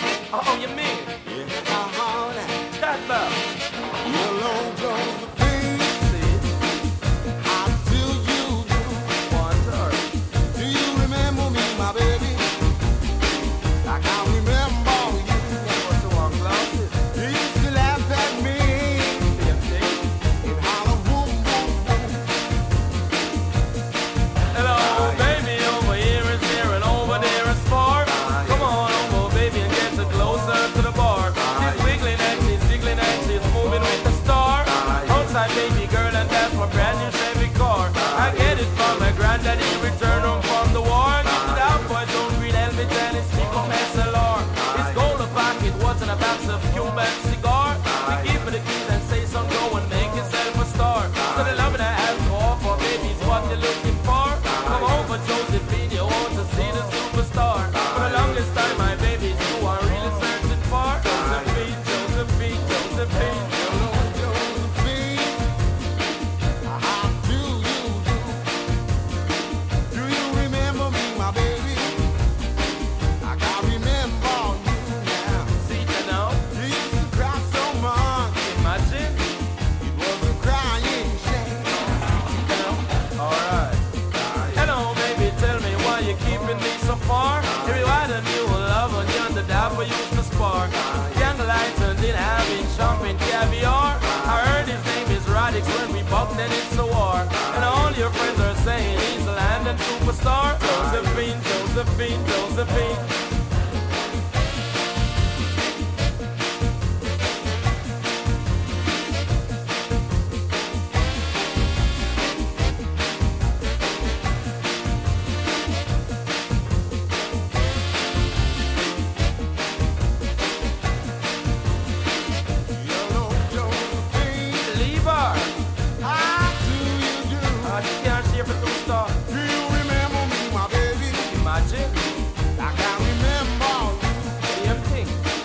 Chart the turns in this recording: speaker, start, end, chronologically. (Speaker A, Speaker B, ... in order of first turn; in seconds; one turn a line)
Speaker A: 0.3-1.1
Speaker B: 1.2-2.6
Speaker A: 2.7-3.4
Speaker B: 4.0-6.1
Speaker A: 6.0-6.5
Speaker B: 7.4-9.2
Speaker A: 9.2-10.1
Speaker B: 10.5-12.6
Speaker B: 13.8-15.9
Speaker A: 15.8-17.0
Speaker B: 17.0-19.4
Speaker A: 19.4-20.0
Speaker B: 20.4-22.3
Speaker A: 24.5-63.5
Speaker B: 63.5-65.5
Speaker B: 66.7-68.5
Speaker B: 69.9-72.0
Speaker B: 73.2-75.6
Speaker A: 75.6-76.4
Speaker B: 76.5-78.4
Speaker A: 78.4-79.3
Speaker B: 79.8-82.8
Speaker A: 83.2-83.8
Speaker A: 84.5-103.1
Speaker B: 122.7-124.8
Speaker A: 124.7-125.5
Speaker B: 126.0-127.8
Speaker A: 127.6-129.2
Speaker B: 129.3-131.3
Speaker A: 131.3-132.1
Speaker B: 132.6-134.5
Speaker A: 134.5-135.2